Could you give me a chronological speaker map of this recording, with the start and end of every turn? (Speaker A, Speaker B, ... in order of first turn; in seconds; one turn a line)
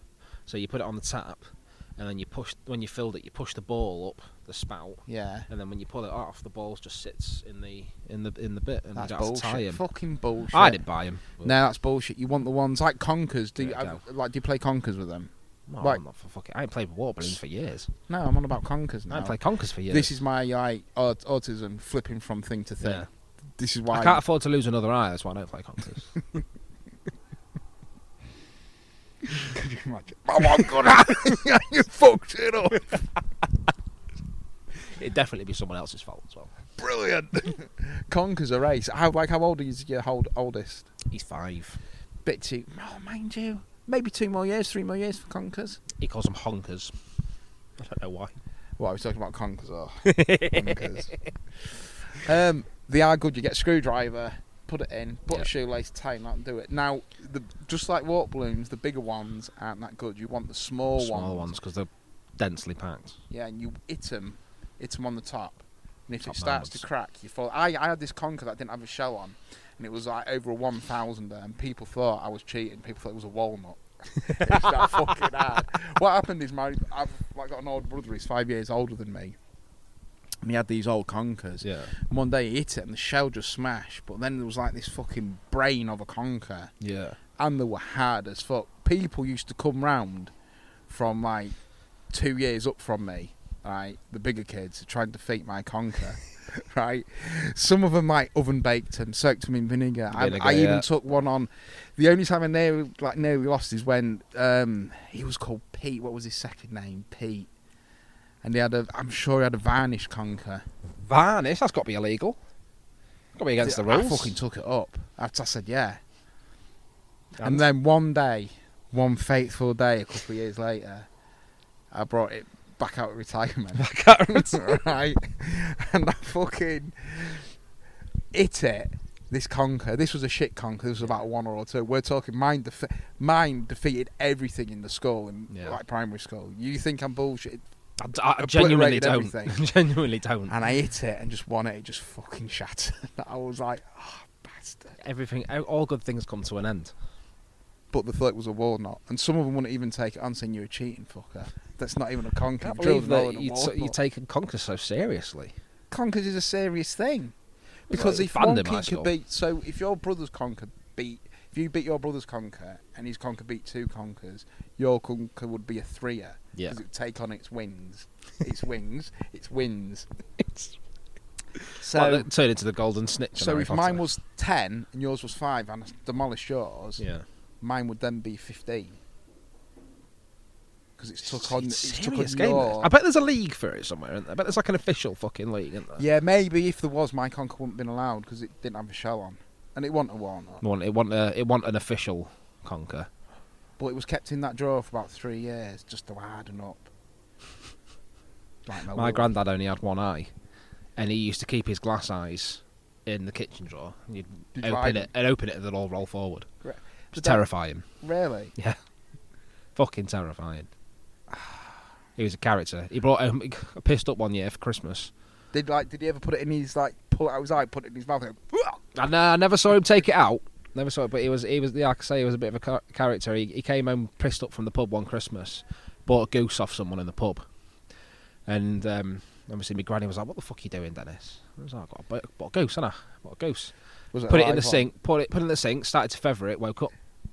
Speaker A: 0.5-9.8
Speaker B: 5.1-5.5
Speaker B: 8.9-16.0
Speaker A: 10.5-11.5
Speaker A: 13.6-14.0
Speaker A: 15.7-17.9
Speaker B: 18.1-24.2
Speaker A: 19.1-20.1
Speaker A: 23.9-26.2
Speaker B: 29.4-33.1
Speaker A: 34.8-36.5
Speaker B: 36.8-40.9
Speaker A: 41.1-41.8
Speaker B: 42.2-45.8
Speaker A: 46.0-47.0
Speaker A: 47.8-48.4
Speaker B: 48.8-51.2
Speaker A: 50.0-51.3
Speaker B: 52.1-61.5
Speaker A: 60.9-63.2
Speaker B: 63.3-79.4
Speaker A: 66.2-66.8
Speaker A: 74.2-74.9
Speaker B: 80.4-86.7
Speaker A: 81.6-81.9
Speaker A: 86.8-87.2
Speaker B: 87.4-90.3
Speaker B: 90.9-91.6
Speaker B: 92.1-107.5
Speaker A: 100.1-100.9
Speaker B: 108.4-110.6
Speaker A: 111.0-112.4
Speaker A: 113.3-114.4
Speaker B: 113.6-116.0
Speaker A: 117.4-117.7
Speaker B: 117.4-121.1
Speaker B: 121.9-127.5
Speaker A: 123.8-124.8
Speaker B: 128.3-137.6
Speaker A: 135.5-135.8
Speaker A: 138.0-140.5
Speaker B: 138.4-139.6
Speaker B: 140.5-145.0
Speaker A: 145.0-146.9
Speaker B: 147.9-153.9
Speaker A: 152.6-155.6
Speaker B: 155.9-157.3
Speaker A: 157.9-159.1
Speaker B: 157.9-170.1
Speaker A: 171.8-174.0
Speaker B: 171.8-172.3
Speaker B: 173.3-177.1
Speaker A: 177.0-177.3
Speaker B: 177.6-179.0
Speaker B: 181.0-182.9
Speaker A: 181.2-186.0
Speaker B: 186.0-190.6
Speaker A: 190.6-193.1
Speaker B: 193.8-196.9
Speaker B: 198.7-199.3
Speaker A: 198.9-200.3
Speaker A: 201.0-206.5
Speaker B: 204.6-205.1
Speaker B: 206.6-207.4
Speaker A: 207.1-207.9
Speaker B: 208.0-208.5
Speaker A: 209.8-210.7
Speaker B: 211.3-211.7
Speaker A: 212.2-215.1
Speaker B: 215.5-218.8
Speaker A: 218.9-227.5
Speaker A: 228.5-233.7
Speaker B: 234.1-234.9
Speaker A: 234.3-236.9